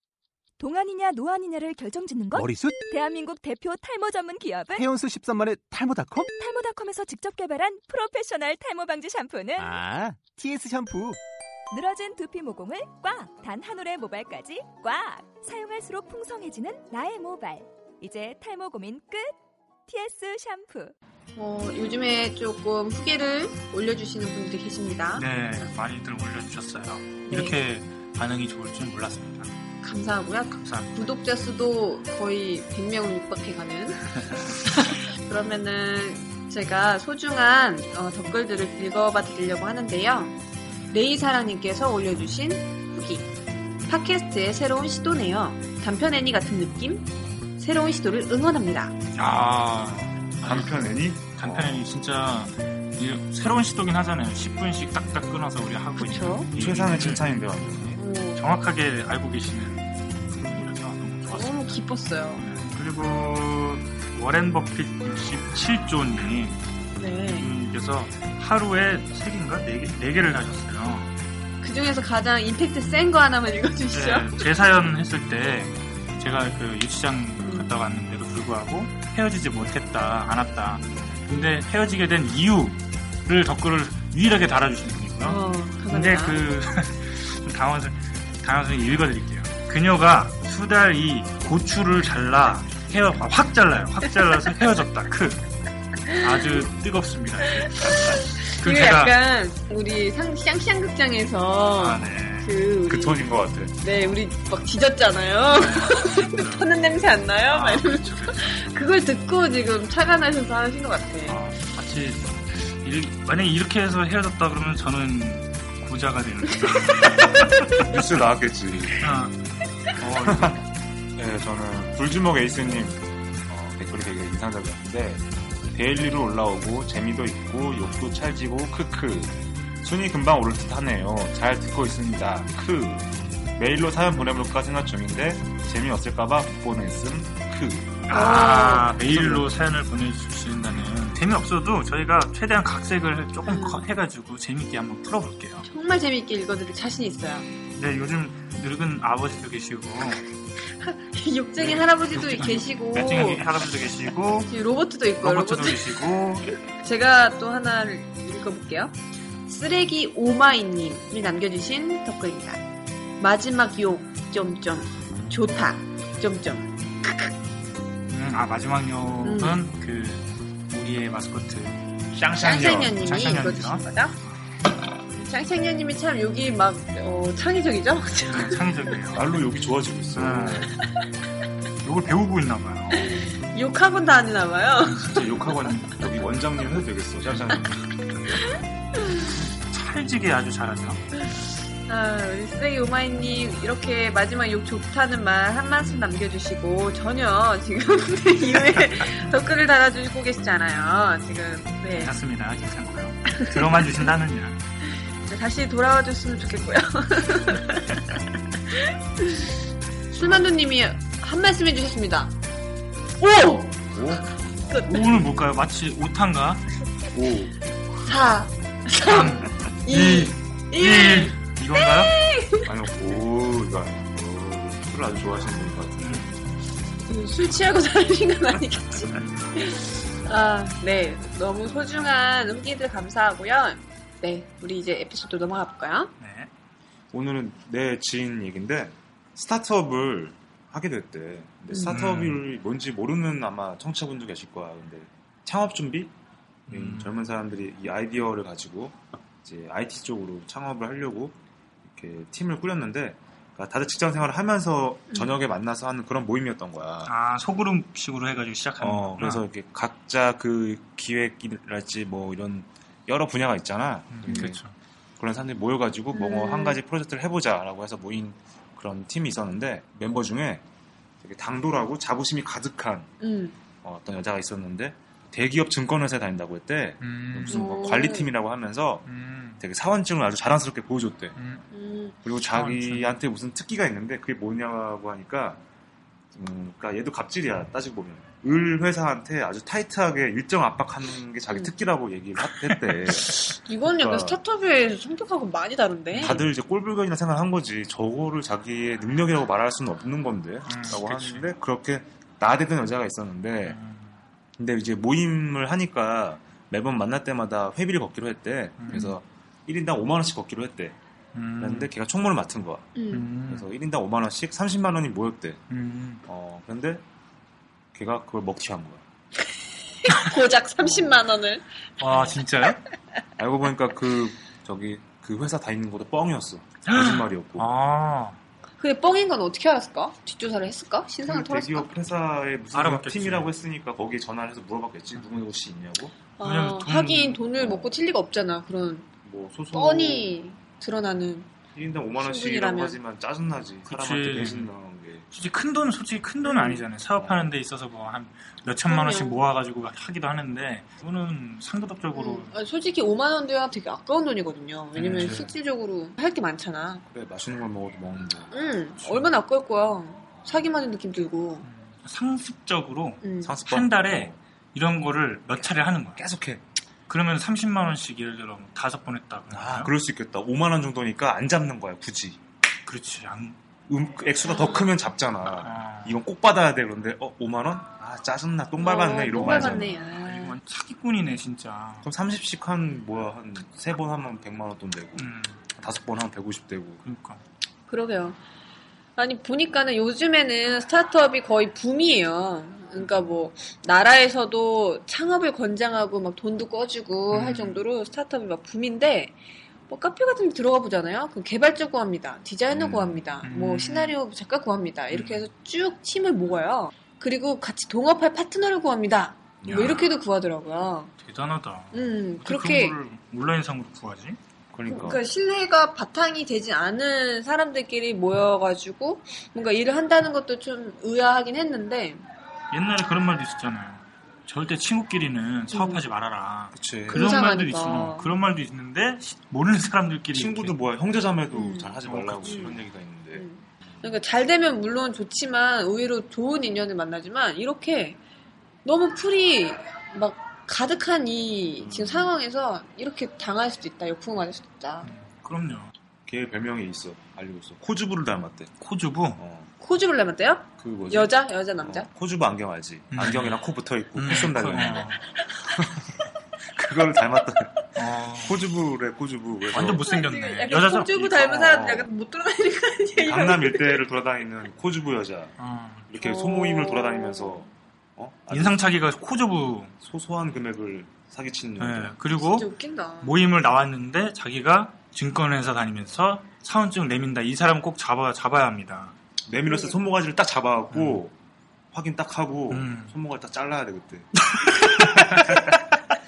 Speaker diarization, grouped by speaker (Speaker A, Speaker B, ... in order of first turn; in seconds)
Speaker A: 0.6-4.9, 6.3-9.7, 11.7-19.3, 19.9-20.9
Speaker B: 2.3-2.8, 4.7-6.3, 9.6-11.2
Speaker C: 21.4-25.2, 27.3-27.6, 29.8-34.0, 35.2-40.4, 40.9-43.3, 43.9-49.0, 56.0-56.5, 58.0-58.4, 61.3-62.5, 66.9-67.5, 71.6-74.4, 77.4-77.7, 85.2-86.4, 96.1-96.6, 97.8-103.3, 103.8-111.4, 138.1-138.9, 143.4-143.9, 145.7-147.5, 150.7-153.4, 154.5-156.0, 156.7-162.6, 163.2-167.3, 169.2-169.6, 172.4-174.2, 175.1-178.6, 183.0-185.2, 191.4-202.2, 205.3-208.0, 208.7-209.5, 210.2-212.3, 213.2-215.0, 218.0-222.7, 227.1-236.1, 241.7-242.0, 255.1-255.4, 266.1-266.8, 273.2-273.6, 277.5-278.3, 281.7-282.1, 293.6-296.4, 312.9-313.3, 320.1-321.6, 328.8-331.9, 336.4-339.1, 339.7-341.5, 342.1-343.0, 346.4-346.8, 348.8-349.4, 352.1-357.0, 358.5-361.6, 363.2-363.5, 374.5-374.9, 378.8-380.6, 387.9-388.4, 389.2-399.4, 399.9-411.1, 411.9-413.0, 414.9-422.2, 425.7-426.0, 427.1-428.3, 431.5-438.2, 438.8-445.1, 449.8-452.1, 460.0-464.0, 466.2-467.7, 472.3-473.4, 479.6-480.0
Speaker D: 25.2-29.5, 30.6-31.1, 40.7-41.0, 49.2-50.7, 51.4-61.8, 62.4-66.6, 67.2-71.1, 73.9-95.4, 96.2-99.2, 101.8-102.5, 103.9-104.2, 105.5-106.7, 107.5-108.7, 111.2-118.0, 119.0-119.4, 120.0-120.6, 138.1-145.7, 147.8-150.2, 151.6-154.5, 155.2-156.5, 168.1-171.8, 173.0-174.6, 178.3-179.3, 180.1-180.8, 181.8-183.2, 184.8-186.1, 187.3-187.7, 189.3-191.0, 201.9-204.6, 210.1-210.5, 214.8-216.6, 219.1-222.2, 226.0-226.4, 236.2-236.5, 241.8-242.4, 246.7-247.1, 257.0-259.4, 264.1-264.8, 277.0-277.8, 279.0-279.6, 281.3-281.6, 282.5-283.1, 292.6-293.5, 296.1-296.5, 300.7-301.5, 303.6-304.1, 308.8-309.1, 311.3-311.9, 313.1-313.7, 315.7-316.2, 322.0-322.8, 326.9-328.4, 332.7-333.5, 335.1-335.4, 336.4-337.4, 343.9-344.7, 345.3-352.6, 354.9-355.5, 361.6-366.2, 367.1-369.9, 372.8-373.6, 375.6-376.2, 379.3-382.1, 385.1-385.7, 387.0-387.4, 397.3-397.8, 403.4-404.1, 405.1-405.5, 409.6-410.1, 411.2-414.4, 422.7-430.8, 432.0-432.8, 445.0-445.9, 448.8-449.4, 453.1-453.6, 454.1-455.2, 457.9-458.6, 459.7-461.4, 465.6-466.1, 468.5-469.9, 471.8-472.7, 473.2-479.1, 480.9-481.2, 482.7-483.1, 484.5-485.4
Speaker E: 50.4-51.8, 56.5-58.0, 102.9-103.7, 117.8-119.0, 120.2-120.6, 121.2-138.0, 139.0-139.5, 172.1-173.0, 179.1-180.7, 185.1-187.8, 213.9-214.9, 217.1-217.6, 222.7-226.3, 237.1-246.1, 246.7-251.4, 251.9-257.1, 258.8-264.6, 265.2-270.6, 271.2-273.1, 273.8-279.1, 279.6-281.3, 282.2-285.6, 286.3-294.4, 296.2-303.8, 304.6-310.9, 311.6-312.9, 313.5-315.6, 316.3-317.0, 317.9-319.0, 320.8-321.2, 322.0-322.4, 323.4-327.7, 331.2-336.1, 337.6-337.9, 339.2-340.3, 341.7-345.3, 347.2-347.5, 355.2-355.4, 357.1-359.3, 363.4-364.4, 365.6-366.6, 369.5-372.4, 373.9-380.0, 382.0-387.0, 402.7-403.4, 409.6-410.1, 414.7-415.2, 426.8-427.2, 430.3-434.1, 441.8-442.4, 446.3-448.7, 449.4-449.7, 450.8-455.1, 455.7-456.1, 456.6-460.1, 461.3-462.1, 463.2-465.5, 466.1-468.9, 470.0-472.1, 479.4-481.3, 481.9-485.9